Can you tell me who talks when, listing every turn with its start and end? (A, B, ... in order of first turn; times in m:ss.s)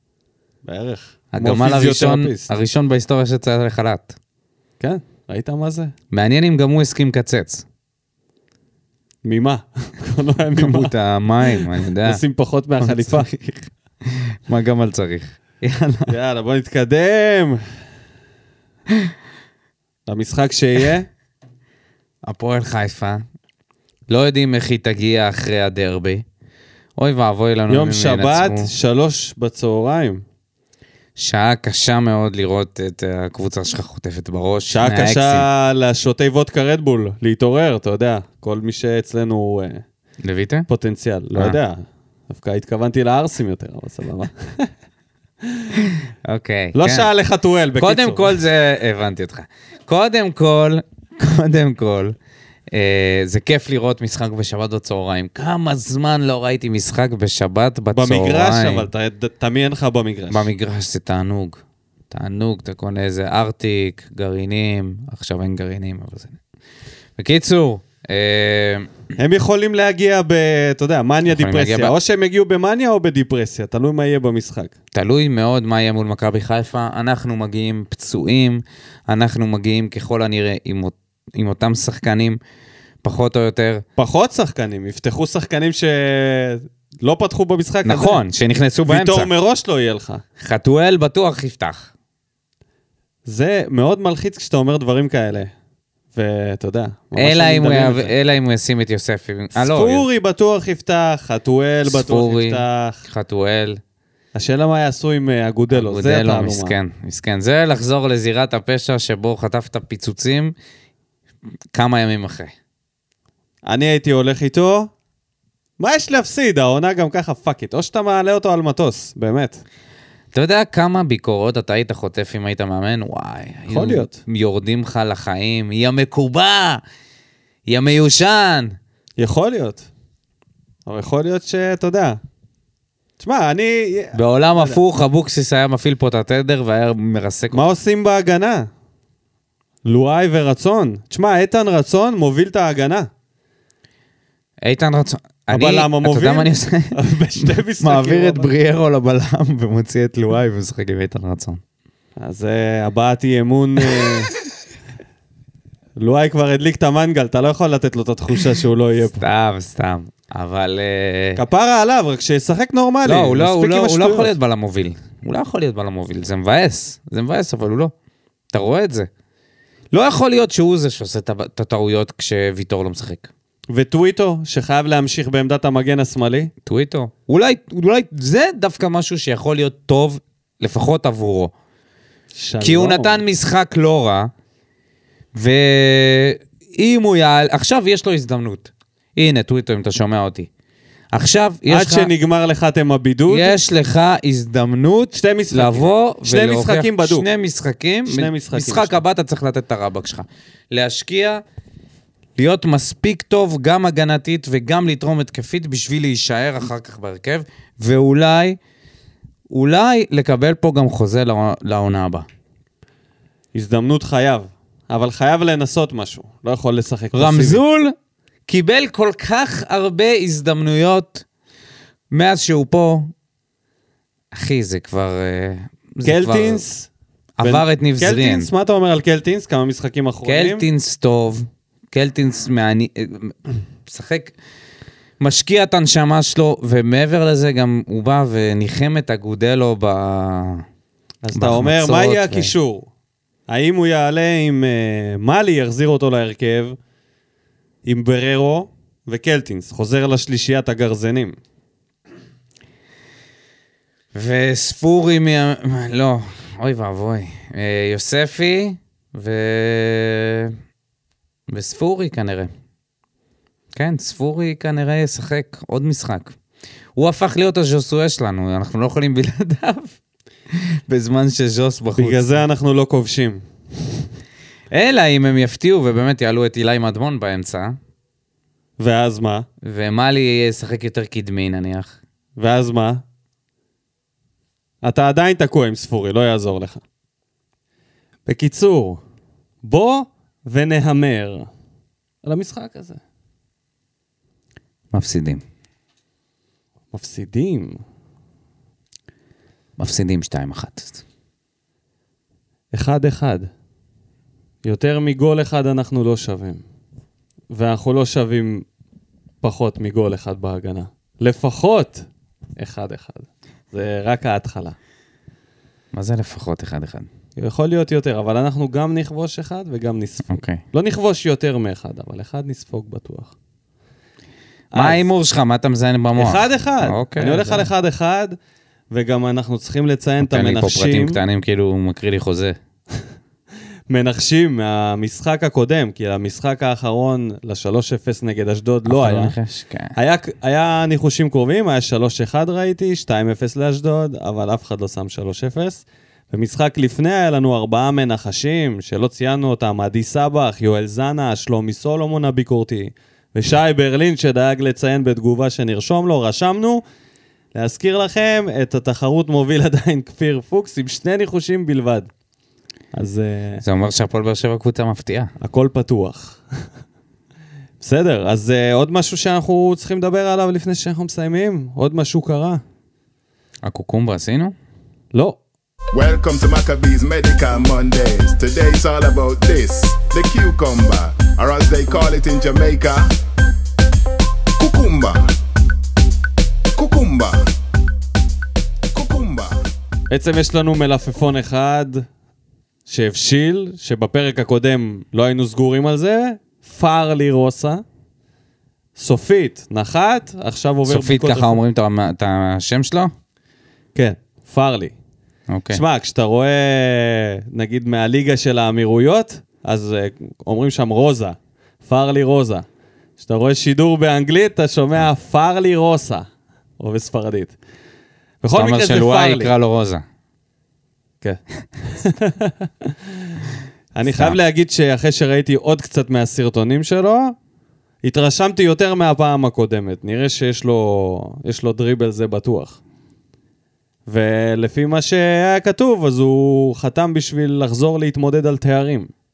0:00.6-0:02.5 A
0:01.3-0:04.2 B
0:04.8-0:05.9 A
0:06.1-0:07.6 B
0:09.2-0:10.9 A
0:10.6-0:12.2 B
0:11.6-0:13.3 A
0:12.8-0:16.1 B
0:16.0-0:17.6 A
0:20.1-0:21.1 A
0:22.2-0:23.2 B
0:24.1-0:26.2 B
0:27.0-0:28.7 B
0:27.7-0:30.2 A
0:31.2-0:35.4 B
0:34.7-0:39.8 A
0:40.2-0:40.7 B
0:40.7-0:44.7 A
0:45.5-0:45.8 A
0:46.2-0:47.1 B
0:46.7-0:48.4 A
0:47.8-0:52.1 B
0:52.7-0:58.9 B
0:57.9-1:00.5 A
1:00.3-1:01.6 B
1:02.1-1:06.4 B
1:07.2-1:08.9 B
1:09.2-1:14.7 A
1:11.2-1:11.9 B
1:14.9-1:22.4 B
1:23.0-1:23.8 B
1:24.0-1:28.2 A
1:27.8-1:29.3 B
1:28.9-1:30.2 A
1:30.4-1:31.9 B
1:33.2-1:35.5 A
1:36.1-1:38.1 A
1:37.2-1:40.0 B
1:39.5-1:43.0 A
1:41.8-1:43.8 B
1:44.3-1:46.8 A
1:45.7-1:50.5 B
1:51.7-1:52.5 B
1:53.7-1:54.9 A
1:55.8-1:59.6 A
2:00.3-2:06.8 B
2:03.7-2:04.2 A
2:07.7-2:08.8 B
2:09.2-2:09.9 A
2:10.8-2:12.2 A
2:13.2-2:14.8 A
2:14.1-2:17.7 B
2:17.5-2:18.7 A
2:19.8-2:23.1 A
2:24.6-2:31.6 B
2:25.5-2:28.5 A
2:32.2-2:34.3 A
2:36.0-2:39.2 A
2:39.2-2:41.4 B
2:41.4-2:44.3 A
2:43.0-2:47.9 B
2:48.5-2:49.1 B
2:49.9-2:53.3 B
2:53.7-2:56.5 A
2:56.6-3:01.5 B
3:02.3-3:03.2 A
3:02.6-3:04.3 B
3:05.3-3:10.5 B
3:11.1-3:12.1 B
3:11.7-3:13.6 A
3:13.3-3:21.4 B
3:15.1-3:17.3 A
3:18.1-3:19.0 A
3:22.4-3:28.6 B
3:29.5-3:32.2 B
3:33.5-3:37.6 A
3:37.1-3:37.9 B
3:38.5-3:41.2 B
3:42.1-3:43.1 B
3:44.3-3:46.6 B
3:46.0-3:46.9 A
3:47.4-3:48.5 B
3:47.4-3:50.6 A
3:50.2-3:54.3 B
3:55.2-4:00.6 B
4:01.2-4:02.9 A
4:01.3-4:02.5 B
4:03.5-4:06.8 A
4:07.8-4:11.4 A
4:14.1-4:20.6 B
4:21.5-4:22.5 B
4:23.7-4:26.4 B
4:27.0-4:30.0 B
4:30.5-4:32.2 B
4:32.0-4:33.4 A
4:34.7-4:37.8 B
4:38.8-4:39.4 A
4:39.6-4:42.0 B
4:42.4-4:43.0 A
4:44.8-4:46.8 A
4:48.3-4:49.0 A
4:49.6-4:51.5 A
4:52.2-4:53.0 A
4:54.9-4:55.4 B
4:56.9-4:57.8 A
4:59.8-5:01.0 B
5:02.7-5:03.5 A
5:04.6-5:06.6 A
5:07.5-5:08.6 A
5:09.4-5:14.8 A
5:15.9-5:17.1 B
5:17.4-5:23.3 A
5:20.3-5:20.6 B
5:24.7-5:25.1 A
5:24.7-5:27.7 B
5:26.2-5:28.4 A
5:28.9-5:31.2 A
5:30.2-5:32.6 B
5:33.9-5:39.4 A
5:38.8-5:39.9 B
5:39.9-5:56.8 A
5:57.5-6:02.1 A
6:02.9-6:03.6 A
6:03.6-6:05.3 B
6:05.4-6:06.4 A
6:07.8-6:12.6 A
6:13.6-6:14.5 B
6:15.1-6:15.4 A
6:15.9-6:23.1 C
6:24.6-6:25.3 C
6:26.8-6:27.5 C
6:28.9-6:29.6 C
6:30.1-6:32.0 A
6:32.9-6:37.8 A
6:39.0-6:41.6 A
6:40.8-6:43.1 B
6:43.9-6:45.0 A
6:45.5-6:45.8 B
6:45.7-6:52.6 A
6:53.2-6:56.3 A
6:56.8-6:57.5 A
6:58.4-6:59.5 A
6:58.5-7:00.0 B
7:01.2-7:03.4 A
7:03.9-7:07.3 A
7:04.1-7:04.4 B
7:08.0-7:12.8 A
7:14.1-7:19.1 A